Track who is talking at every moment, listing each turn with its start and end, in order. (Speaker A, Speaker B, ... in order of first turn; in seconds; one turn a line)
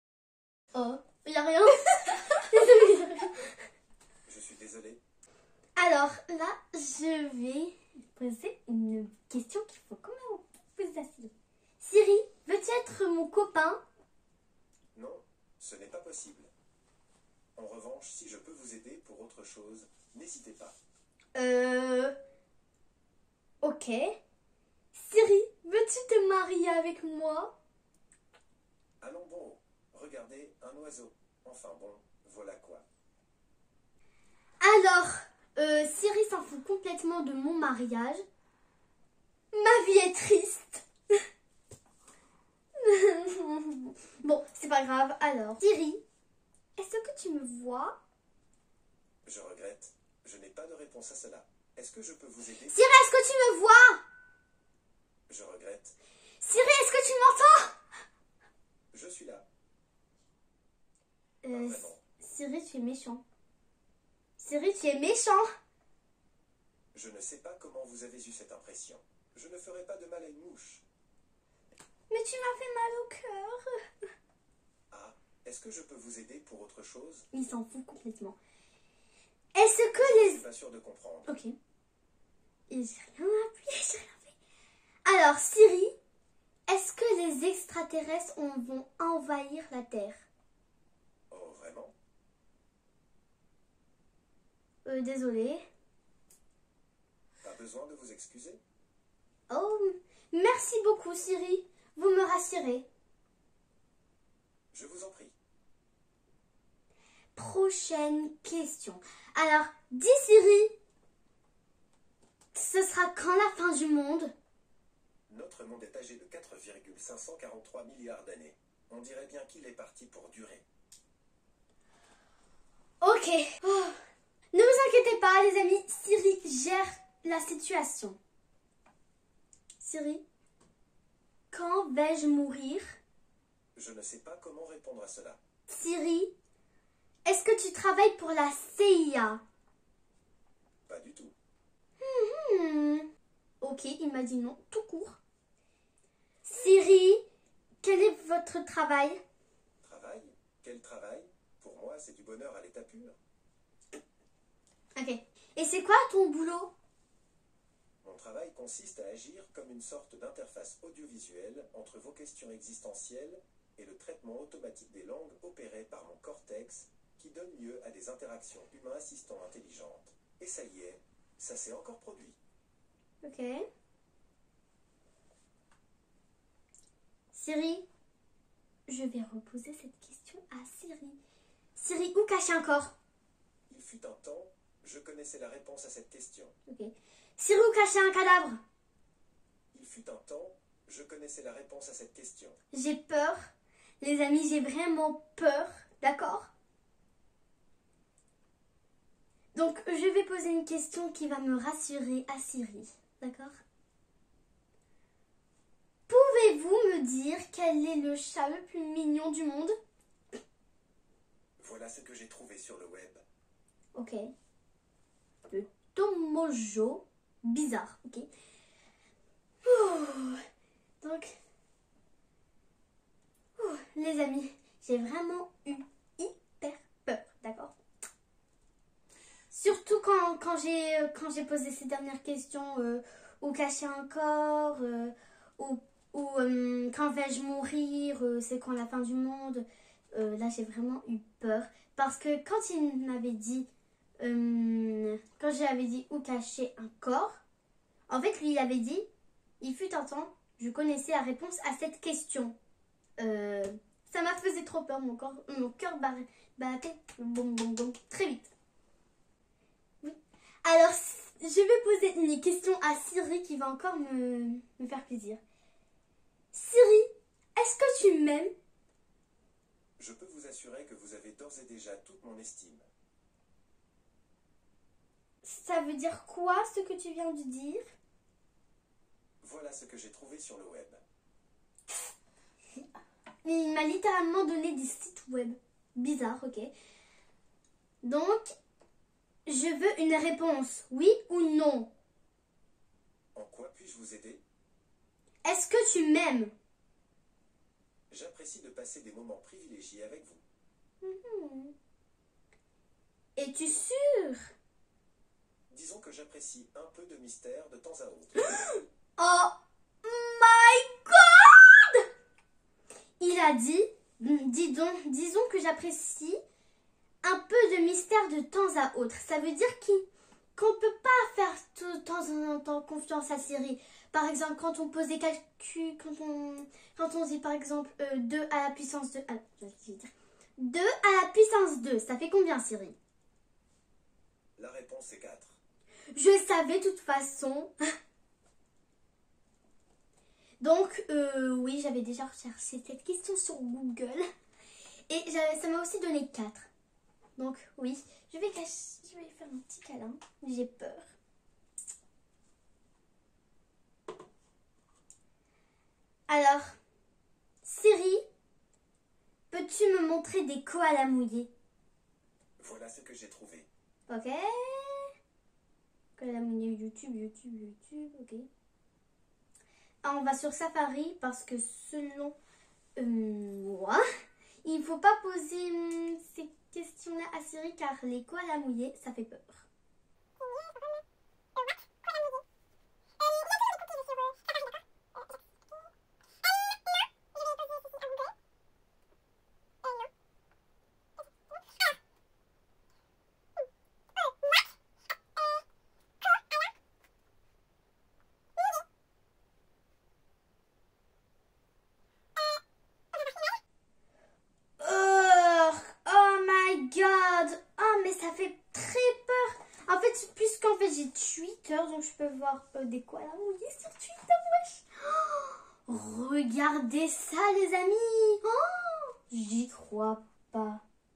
Speaker A: 0.7-3.4
Speaker B: 4.3-5.0
Speaker A: 5.8-13.8
Speaker B: 14.9-16.5
Speaker B: 17.6-20.8
Speaker A: 21.4-22.1
Speaker A: 23.6-24.2
Speaker A: 24.9-27.6
Speaker B: 29.0-32.9
Speaker A: 34.6-38.2
Speaker A: 39.5-40.9
Speaker A: 42.8-46.0
Speaker A: 46.8-48.0
Speaker B: 49.2-52.8
Speaker A: 52.7-54.0
Speaker B: 55.3-56.0
Speaker A: 56.4-57.8
Speaker B: 58.9-59.5
Speaker A: 61.4-63.2
Speaker B: 61.5-62.0
Speaker A: 64.4-65.5
Speaker B: 66.9-70.8
Speaker A: 72.1-73.7
Speaker B: 74.9-77.3
Speaker A: 77.3-78.4
Speaker A: 79.5-80.4
Speaker B: 80.0-81.3
Speaker A: 81.3-81.5
Speaker A: 82.7-84.3
Speaker A: 85.1-85.9
Speaker A: 86.7-90.2
Speaker B: 91.3-92.0
Speaker A: 94.8-95.6
Speaker B: 97.4-98.6
Speaker A: 99.5-102.9
Speaker B: 104.7-105.3
Speaker A: 107.3-110.8
Speaker A: 112.5-114.3
Speaker B: 115.3-120.6
Speaker A: 123.0-124.0
Speaker A: 124.5-128.2
Speaker A: 129.8-130.2
Speaker A: 131.5-132.9
Speaker B: 133.8-135.4
Speaker A: 135.7-136.3
Speaker A: 137.3-139.4
Speaker B: 140.9-141.3
Speaker A: 142.0-143.1
Speaker A: 143.6-145.2
Speaker A: 146.4-147.2
Speaker A: 147.8-149.2
Speaker B: 149.8-153.2
Speaker A: 155.0-156.7
Speaker B: 158.0-172.4
Speaker A: 173.2-173.7
Speaker A: 177.3-177.9
Speaker A: 178.9-181.2
Speaker A: 181.8-182.9
Speaker B: 183.7-186.6
Speaker A: 186.7-188.6
Speaker B: 189.7-192.6
Speaker A: 192.7-193.4
Speaker A: 194.0-196.5
Speaker A: 199.5-203.5
Speaker A: 206.1-209.7
Speaker B: 211.6-213.2
Speaker A: 213.9-214.3
Speaker A: 215.5-218.3
Speaker A: 219.7-220.4
Speaker A: 221.0-221.3
Speaker A: 223.6-227.7
Speaker A: 229.5-243.7
Speaker A: 244.2-247.4
Speaker A: 248.1-249.1
Speaker A: 249.6-252.6
Speaker A: 253.2-258.5
Speaker A: 260.0-265.4
Speaker A: 266.5-268.5
Speaker B: 270.0-272.9
Speaker A: 275.4-277.8
Speaker B: 279.4-281.0
Speaker A: 283.4-286.7
Speaker A: 288.0-288.5
Speaker A: 289.5-291.9
Speaker B: 293.4-294.4
Speaker A: 295.4-296.5
Speaker B: 298.1-300.4
Speaker A: 301.0-301.7
Speaker A: 303.4-304.5
Speaker B: 305.7-308.5
Speaker A: 308.5-312.1
Speaker A: 313.2-316.4
Speaker A: 317.2-320.0
Speaker A: 320.6-332.9
Speaker B: 334.6-335.6
Speaker A: 336.1-337.7
Speaker A: 340.6-344.2
Speaker A: 345.1-346.7
Speaker A: 347.4-351.1
Speaker A: 356.3-356.8
Speaker A: 357.6-358.2
Speaker A: 359.5-361.5
Speaker B: 362.6-363.7
Speaker A: 364.1-365.1
Speaker A: 366.2-368.5
Speaker A: 370.0-372.4
Speaker A: 373.0-374.0
Speaker A: 374.6-379.7
Speaker A: 404.8-420.8